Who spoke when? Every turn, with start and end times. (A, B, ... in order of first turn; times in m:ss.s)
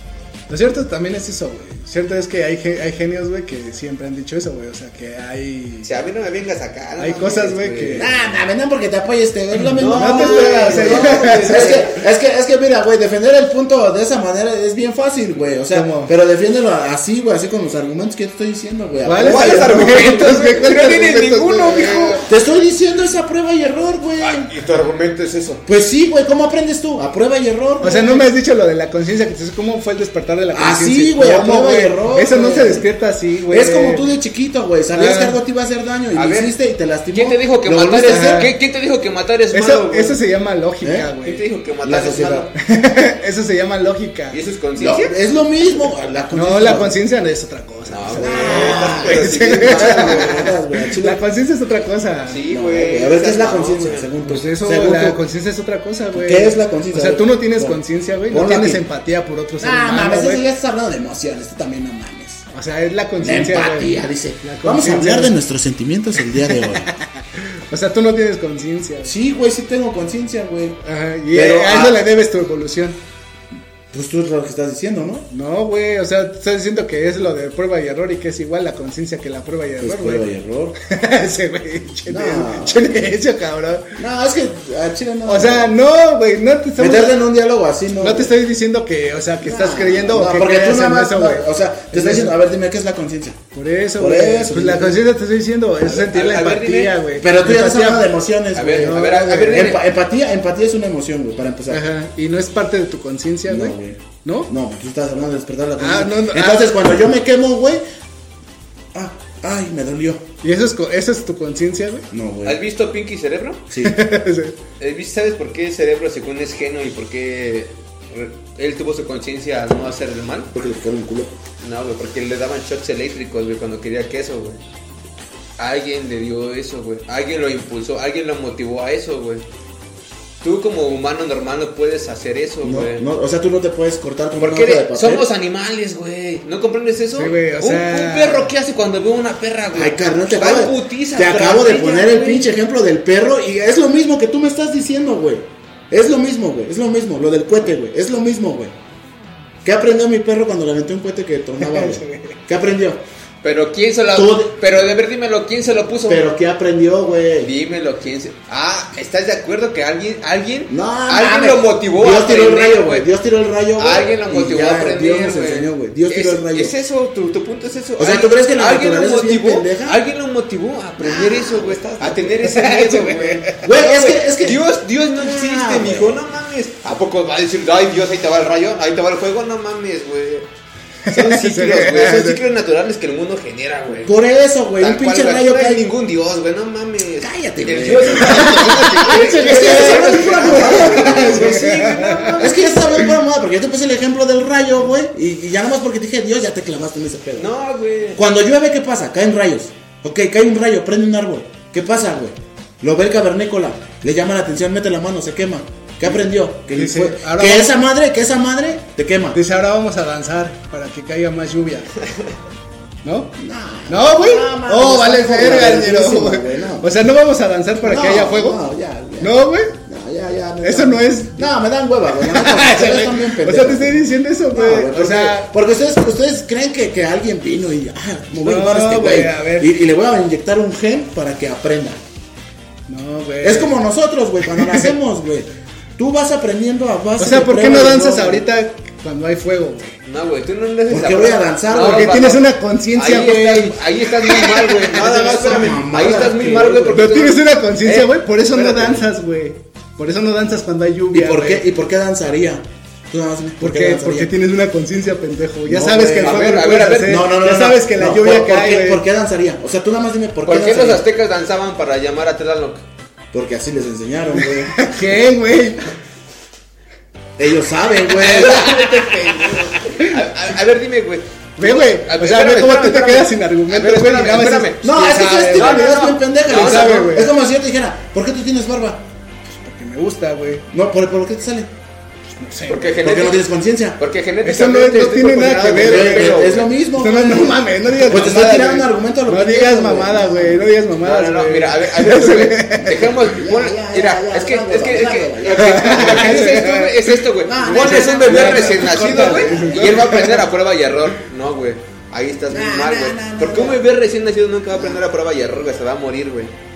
0:00.5-0:05.9 A
0:05.8-0:08.2 B
0:07.0-0:08.1 A
0:07.9-0:20.3 C
0:09.6-0:11.8 A
0:09.7-0:12.0 B
0:15.7-0:16.1 A
0:19.0-0:22.3 A
0:19.2-0:22.2 B
0:22.2-0:24.5 C
0:24.2-0:25.6 B
0:25.6-0:28.3 C
0:27.8-0:34.0 A
0:30.5-0:32.9 C
0:33.5-0:38.5 C
0:34.9-0:35.4 A
0:36.1-0:36.5 B
0:37.1-0:40.2 B
0:38.0-0:38.6 A
0:39.5-0:41.4 A
0:40.8-0:41.1 C
0:41.2-0:42.5 B
0:41.8-0:42.5 C
0:42.6-0:44.4 A
0:44.3-0:45.2 B
0:44.8-0:46.9 C
0:46.3-0:50.4 A
0:47.9-0:50.5 B
0:48.2-0:51.2 C
0:51.0-0:52.4 A
0:52.3-0:54.1 B
0:52.5-0:55.2 C
0:54.2-1:00.4 A
0:56.1-0:57.8 C
0:58.3-0:58.8 C
0:59.6-1:02.4 C
1:02.5-1:05.4 A
1:03.2-1:06.8 C
1:06.5-1:09.1 A
1:09.0-1:10.8 C
1:10.8-1:13.0 A
1:11.3-1:12.0 C
1:13.9-1:15.3 C
1:15.3-1:20.2 A
1:19.8-1:20.8 C
1:20.8-1:24.0 A
1:22.1-1:22.9 C
1:24.0-1:25.7 C
1:25.3-1:27.2 A
1:26.8-1:28.3 C
1:27.9-1:32.3 A
1:29.4-1:33.4 C
1:33.5-1:38.1 A
1:34.0-1:35.0 C
1:35.8-1:37.0 B
1:37.2-1:41.8 C
1:38.5-1:39.8 B
1:38.8-1:39.7 A
1:41.7-1:44.5 A
1:43.5-1:47.8 C
1:45.8-1:46.7 A
1:48.9-1:50.2 C
1:50.4-1:52.1 A
1:52.1-1:52.6 C
1:52.4-1:53.6 B
1:53.7-1:54.0 C
1:53.8-1:54.6 A
1:54.8-2:00.5 B
2:00.5-2:01.3 C
2:01.6-2:04.6 B
2:05.6-2:09.4 B
2:10.4-2:13.0 B
2:12.6-2:15.3 C
2:14.4-2:22.5 B
2:17.1-2:18.5 A
2:19.7-2:28.7 C
2:29.6-2:33.0 C
2:31.6-2:32.4 A
2:33.4-2:36.2 B
2:34.1-2:34.5 C
2:36.1-2:37.5 C
2:37.4-2:43.1 B
2:40.7-2:46.7 C
2:43.8-3:00.5 B
2:48.0-2:50.0 C
2:51.0-2:52.4 C
2:52.4-2:53.6 A
2:53.6-2:54.6 C
2:55.2-2:56.2 C
3:01.1-3:02.4 A
3:01.1-3:04.1 B
3:04.0-3:05.9 C
3:04.8-3:13.1 B
3:07.2-3:11.8 C
3:08.2-3:12.5 A
3:12.4-3:17.5 C
3:17.4-3:18.2 B
3:18.1-3:29.4 C
3:26.7-3:27.8 A
3:29.3-3:32.0 A
3:33.0-3:33.3 A
3:33.4-3:36.9 C
3:33.9-3:38.6 A
3:37.8-3:52.0 C
3:39.2-3:39.7 A
3:40.6-3:41.5 A
3:42.2-3:45.5 A
3:48.4-3:49.7 A
3:52.9-3:53.7 A
3:53.4-3:58.4 C
3:54.4-3:54.9 A
3:57.2-4:00.0 A
4:00.0-4:09.0 B
4:00.9-4:02.4 C
4:01.7-4:05.8 A
4:05.4-4:07.0 C
4:06.9-4:11.6 A
4:11.1-4:14.3 C
4:13.6-4:19.0 A
4:15.6-4:21.0 C
4:16.2-4:17.2 B
4:20.4-4:22.8 B
4:23.3-4:24.9 C
4:24.4-4:25.9 A
4:27.4-4:29.4 C
4:28.1-4:30.2 A
4:28.3-4:34.9 B
4:31.6-4:35.9 A
4:34.8-4:39.0 C
4:35.5-4:37.2 B
4:36.5-4:37.3 A
4:39.5-4:40.6 A
4:40.7-4:41.7 C
4:42.3-4:43.0 A
4:42.7-4:46.7 B
4:43.0-4:44.0 C
4:44.4-4:53.0 A
4:45.7-4:50.7 C
4:48.1-4:48.7 B
4:51.0-5:06.5 B
4:52.9-4:56.8 C
4:55.5-4:57.1 A
4:57.4-5:00.4 C
4:57.9-5:00.4 A
5:02.5-5:03.8 C
5:04.7-5:05.0 C